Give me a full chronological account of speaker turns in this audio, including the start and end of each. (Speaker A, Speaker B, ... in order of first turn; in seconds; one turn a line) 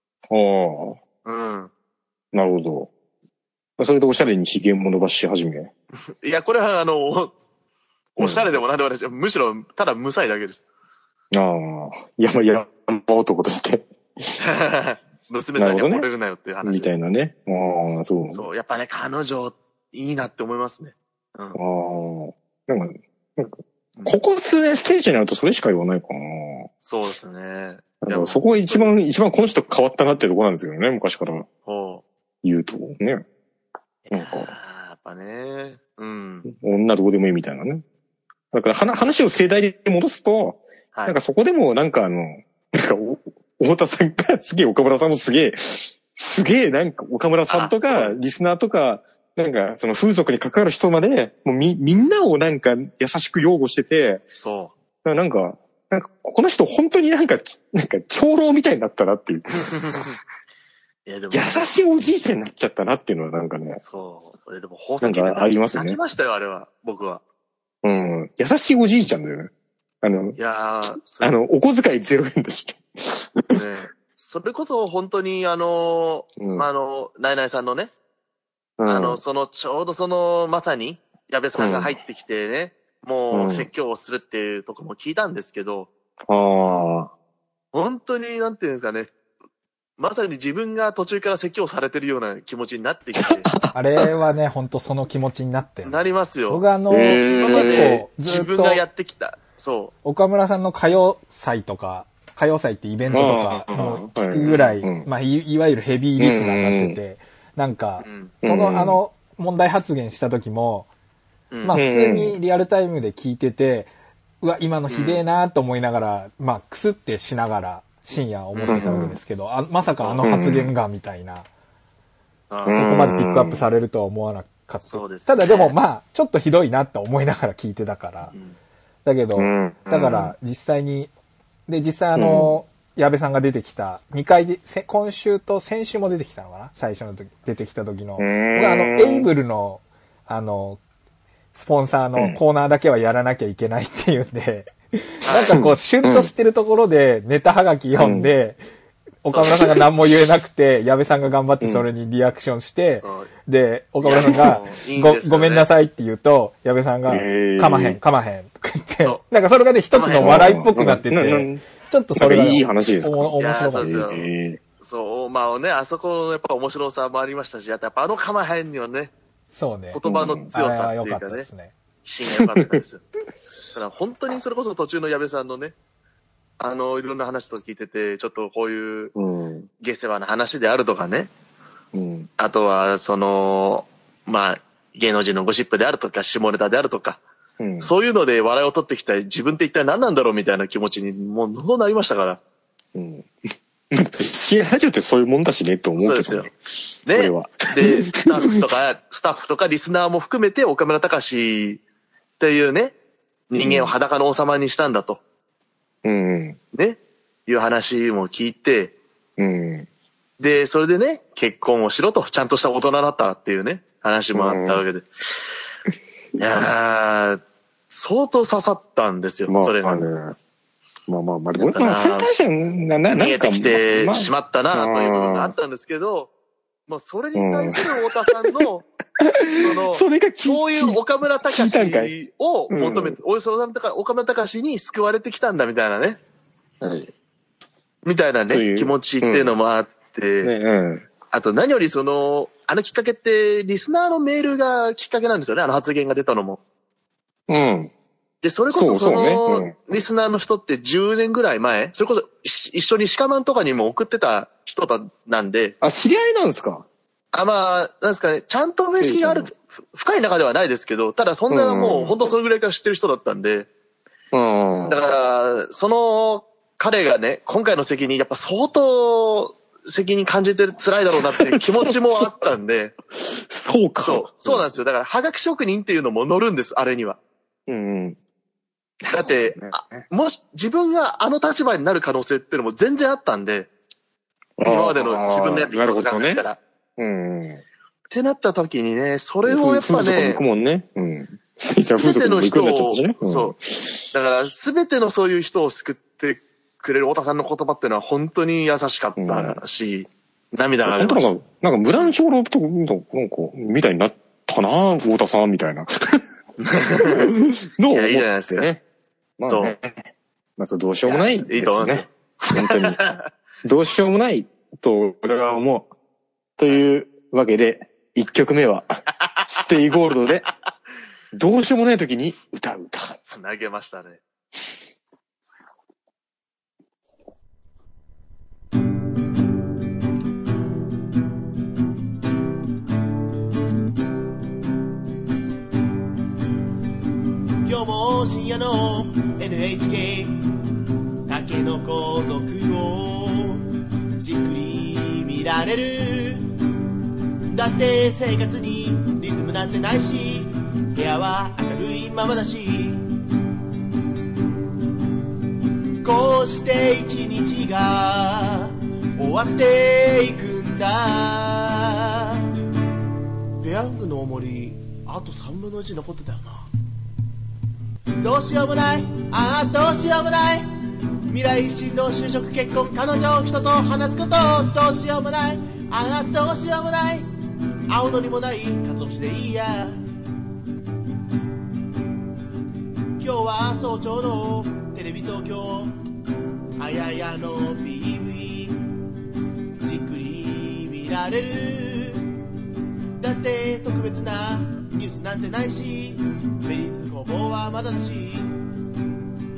Speaker A: 0.3-1.0
Speaker B: 1.2-1.7
Speaker A: 2.3-2.9
Speaker A: 3.8-5.7
Speaker B: 6.2-7.3
Speaker B: 8.2-10.6
Speaker A: 8.2-8.5
Speaker A: 11.3-14.3
Speaker B: 14.4-16.9
Speaker A: 15.6-16.1
Speaker A: 16.6-18.4
Speaker B: 18.3-21.6
Speaker A: 21.5-26.7
Speaker B: 26.8-28.9
Speaker A: 28.0-31.5
Speaker B: 31.6-32.0
Speaker A: 32.4-33.2
Speaker B: 34.1-36.5
Speaker A: 34.1-34.5
Speaker A: 36.4-37.8
Speaker A: 38.5-54.2
Speaker B: 47.5-48.2
Speaker B: 51.9-52.2
Speaker B: 54.4-54.7
Speaker A: 55.0-60.1
Speaker B: 59.5-60.1
Speaker B: 61.0-61.7
Speaker A: 61.3-63.8
Speaker B: 63.8-67.2
Speaker A: 65.0-66.0
Speaker A: 67.8-70.4
Speaker B: 70.3-71.3
Speaker A: 71.0-73.6
Speaker B: 73.5-77.9
Speaker A: 76.4-76.7
Speaker A: 78.8-79.2
Speaker B: 78.9-85.9
Speaker A: 81.6-82.0
Speaker A: 83.3-83.7
Speaker A: 86.3-87.1
Speaker B: 87.7-89.1
Speaker B: 90.0-93.5
Speaker A: 93.2-94.0
Speaker C: 93.7-98.8
Speaker B: 95.8-96.6
Speaker A: 96.9-98.0
Speaker B: 97.3-99.9
Speaker C: 100.0-110.9
Speaker B: 103.0-103.4
Speaker A: 103.1-105.1
Speaker B: 104.5-104.8
Speaker A: 106.2-107.0
Speaker B: 108.0-108.3
Speaker A: 108.4-109.0
Speaker B: 111.5-111.8
Speaker C: 111.6-113.9
Speaker A: 111.7-112.4
Speaker C: 114.4-121.5
Speaker B: 114.9-115.2
Speaker B: 118.5-119.0
Speaker A: 118.7-119.2
Speaker A: 120.2-120.7
Speaker B: 122.5-122.8
Speaker A: 122.7-123.6
Speaker C: 122.7-128.3
Speaker B: 124.9-125.7
Speaker C: 129.0-131.1
Speaker A: 129.3-130.3
Speaker C: 131.7-140.8
Speaker A: 132.1-132.6
Speaker A: 138.2-139.3
Speaker C: 141.5-148.6
Speaker B: 145.2-145.6
Speaker A: 145.5-146.3
Speaker A: 147.9-148.3
Speaker C: 149.2-164.2
Speaker B: 149.3-149.7
Speaker A: 151.6-151.9
Speaker B: 153.0-153.3
Speaker B: 154.0-155.7
Speaker A: 157.1-158.0
Speaker B: 159.9-160.4
Speaker A: 160.2-161.6
Speaker A: 162.2-164.6
Speaker B: 163.4-164.3
Speaker B: 164.8-169.1
Speaker C: 169.5-171.7
Speaker B: 169.9-171.4
Speaker A: 170.0-170.5
Speaker B: 172.0-173.0
Speaker B: 173.7-175.7
Speaker B: 176.6-179.1
Speaker A: 179.1-179.7
Speaker B: 179.8-181.3
Speaker A: 181.9-182.3
Speaker B: 182.4-187.2
Speaker A: 187.6-187.9
Speaker B: 187.8-192.4
Speaker A: 192.9-193.3
Speaker A: 193.9-196.5
Speaker B: 196.0-196.5
Speaker B: 197.1-201.8
Speaker A: 197.1-198.3
Speaker B: 202.4-202.9
Speaker B: 203.5-205.2
Speaker A: 203.6-203.9
Speaker A: 206.0-206.6
Speaker B: 206.7-208.9
Speaker A: 209.4-209.9
Speaker B: 210.4-215.1
Speaker A: 214.3-214.8
Speaker B: 216.4-220.0
Speaker A: 219.5-220.3
Speaker A: 221.1-225.5
Speaker B: 221.6-222.3
Speaker B: 223.1-226.3
Speaker B: 226.9-228.8
Speaker A: 227.3-228.4
Speaker A: 229.2-232.1
Speaker B: 229.6-236.2
Speaker A: 232.7-233.2
Speaker A: 236.8-237.1
Speaker B: 238.0-240.5
Speaker A: 238.5-239.5
Speaker A: 240.4-241.1
Speaker B: 241.3-246.6
Speaker A: 247.5-247.9
Speaker B: 248.4-255.8
Speaker A: 248.7-249.7
Speaker A: 255.8-256.9
Speaker B: 257.3-263.7
Speaker A: 259.0-259.5
Speaker A: 261.5-262.3
Speaker A: 264.3-265.0
Speaker B: 264.9-272.9
Speaker A: 271.3-272.4
Speaker A: 273.3-274.6
Speaker B: 274.0-277.2
Speaker A: 277.7-278.2
Speaker A: 279.0-280.0
Speaker B: 279.1-283.7
Speaker A: 284.6-286.4
Speaker B: 284.6-286.6
Speaker A: 287.0-287.6
Speaker B: 288.1-290.4
Speaker A: 289.4-294.1
Speaker B: 292.0-293.6
Speaker B: 294.1-301.3
Speaker A: 299.2-299.6
Speaker A: 300.8-306.2
Speaker B: 306.6-307.3
Speaker A: 307.0-308.8
Speaker B: 307.9-308.7
Speaker A: 309.4-313.0
Speaker B: 309.4-309.8
Speaker B: 311.0-313.2
Speaker A: 313.6-315.9
Speaker A: 316.6-320.5
Speaker A: 321.3-323.1
Speaker B: 323.2-324.2
Speaker D: 337.6-340.4
Speaker D: 341.3-343.7
Speaker D: 344.2-346.5
Speaker D: 347.5-353.1
Speaker D: 356.0-362.4
Speaker D: 363.6-366.7
Speaker D: 368.2-370.7
Speaker D: 371.3-377.2
Speaker D: 377.9-380.0
Speaker D: 383.2-386.0
Speaker D: 386.8-388.8
Speaker D: 389.8-392.3
Speaker D: 393.2-398.5